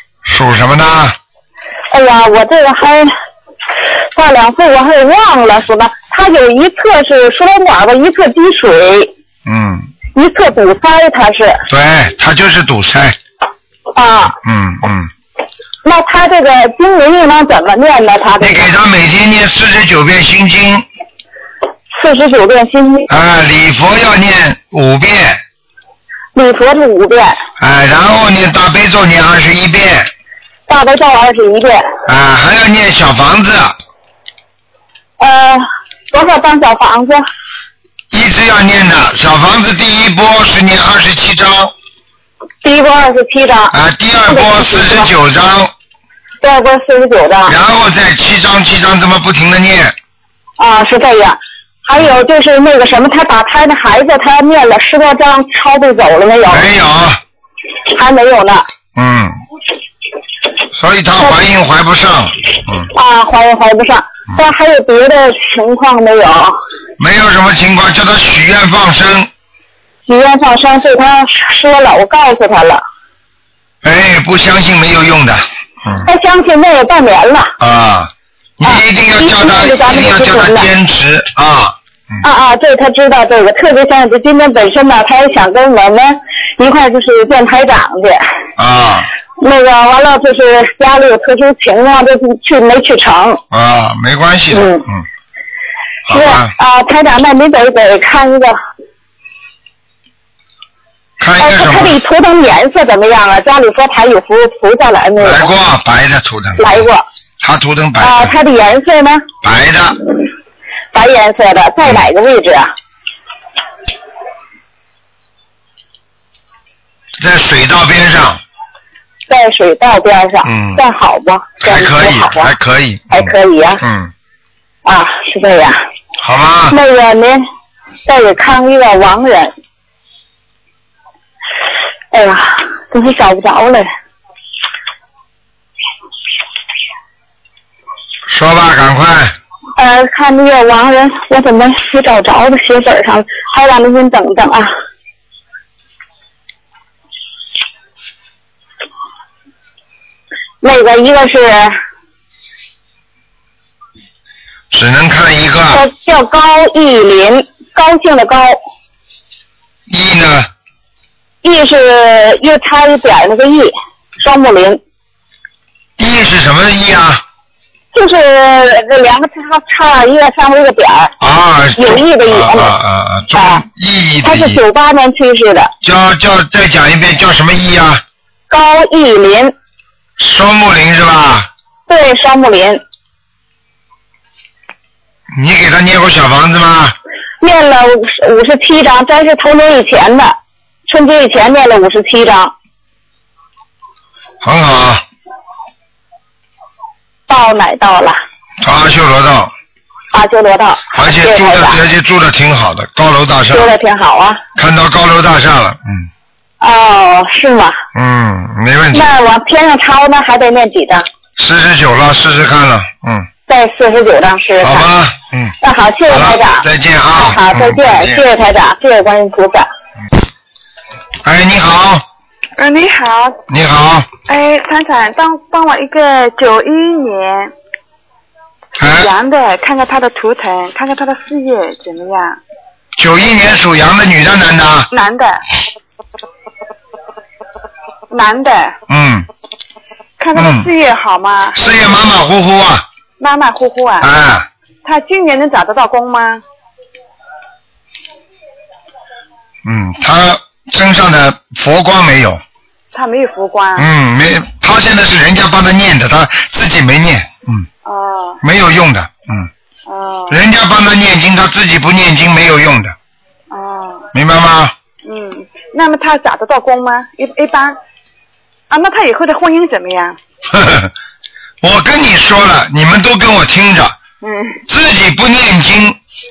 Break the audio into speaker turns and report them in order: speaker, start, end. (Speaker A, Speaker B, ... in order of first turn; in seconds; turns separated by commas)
Speaker A: 0.2-1.2, Speaker B: 1.9-3.1, Speaker B: 4.1-9.1, Speaker A: 9.4-9.9, Speaker B: 10.1-11.6, Speaker A: 11.7-13.2, Speaker B: 13.9-14.3, Speaker A: 14.4-15.1, Speaker B: 15.8-18.7, Speaker A: 18.4-20.9, Speaker B: 21.9-23.1, Speaker A: 23.1-25.4, Speaker B: 26.3-27.4, Speaker A: 27.6-30.1, Speaker B: 30.7-31.8, Speaker A: 32.0-33.8, Speaker B: 35.2-37.2, Speaker A: 38.1-41.7, Speaker B: 42.6-43.7, Speaker A: 43.7-45.7, Speaker B: 44.3-45.1, Speaker B: 46.4-47.5, Speaker A: 47.5-49.9, Speaker B: 50.6-56.7, Speaker A: 56.5-57.2, Speaker B: 57.9-58.6, Speaker A: 59.0-59.4, Speaker A: 60.7-62.9, Speaker B: 62.9-66.5, Speaker A: 67.0-69.3, Speaker B: 70.1-72.8, Speaker A: 73.8-76.1, Speaker B: 76.0-77.5, Speaker A: 77.6-81.7, Speaker B: 78.6-80.7, Speaker B: 82.2-88.2, Speaker A: 88.6-89.1, Speaker B: 89.4-93.4, Speaker A: 93.5-95.0, Speaker B: 94.5-94.8, Speaker A: 96.1-96.5, Speaker B: 96.1-98.6, Speaker A: 101.2-102.0, Speaker B: 101.4-105.5, Speaker A: 105.2-106.8, Speaker B: 106.6-107.0, Speaker A: 107.4-108.3, Speaker B: 108.0-109.2, Speaker A: 109.4-110.0, Speaker B: 110.9-112.7, Speaker A: 117.2-118.4, Speaker B: 119.3-122.5, Speaker A: 120.4-120.8, Speaker A: 121.6-124.1, Speaker B: 123.1-123.8, Speaker B: 124.8-125.8, Speaker A: 126.2-126.7, Speaker B: 126.7-127.4, Speaker B: 128.1-129.5, Speaker B: 132.1-133.9, Speaker A: 138.3-139.3, Speaker B: 139.8-144.7, Speaker B: 150.6-151.7, Speaker A: 154.7-155.8, Speaker B: 155.7-158.6, Speaker A: 159.9-160.5, Speaker B: 161.4-164.8, Speaker A: 166.0-167.2, Speaker B: 167.9-171.1, Speaker A: 171.2-174.6, Speaker B: 171.8-172.7, Speaker B: 173.3-173.6, Speaker B: 174.2-175.7, Speaker A: 175.8-178.0, Speaker B: 178.5-179.5, Speaker A: 180.2-181.5, Speaker B: 181.9-182.8, Speaker A: 185.3-186.9, Speaker B: 187.4-190.3, Speaker B: 190.9-192.5, Speaker A: 194.4-195.0, Speaker B: 197.3-198.2, Speaker A: 198.6-199.5, Speaker B: 200.1-201.8, Speaker A: 200.9-203.7, Speaker B: 203.5-204.4, Speaker A: 204.6-206.1, Speaker B: 206.6-207.8, Speaker A: 207.9-209.1, Speaker B: 208.9-211.1, Speaker A: 211.4-213.3, Speaker B: 213.5-214.8, Speaker A: 214.6-215.5, Speaker B: 215.6-219.7, Speaker A: 216.1-218.2, Speaker A: 221.2-222.0, Speaker C: 222.6-223.4, Speaker A: 223.5-224.1, Speaker C: 224.3-227.5, Speaker A: 228.8-229.1, Speaker C: 228.9-232.4, Speaker A: 233.0-234.9, Speaker C: 234.9-235.4, Speaker C: 238.1-238.8, Speaker A: 238.9-239.3, Speaker C: 240.2-241.6, Speaker A: 240.3-240.7, Speaker A: 241.5-242.8, Speaker C: 243.2-244.1, Speaker A: 244.0-244.5, Speaker C: 244.8-246.4, Speaker A: 249.6-252.4, Speaker C: 252.9-253.9, Speaker A: 253.8-257.7, Speaker C: 257.8-258.4, Speaker A: 258.4-259.5, Speaker C: 259.9-260.4, Speaker A: 260.3-262.9, Speaker C: 263.5-264.1, Speaker A: 264.1-264.7, Speaker C: 265.0-267.8, Speaker C: 268.7-270.2, Speaker A: 270.5-270.9, Speaker A: 271.6-274.0, Speaker C: 274.2-274.6, Speaker A: 274.7-276.0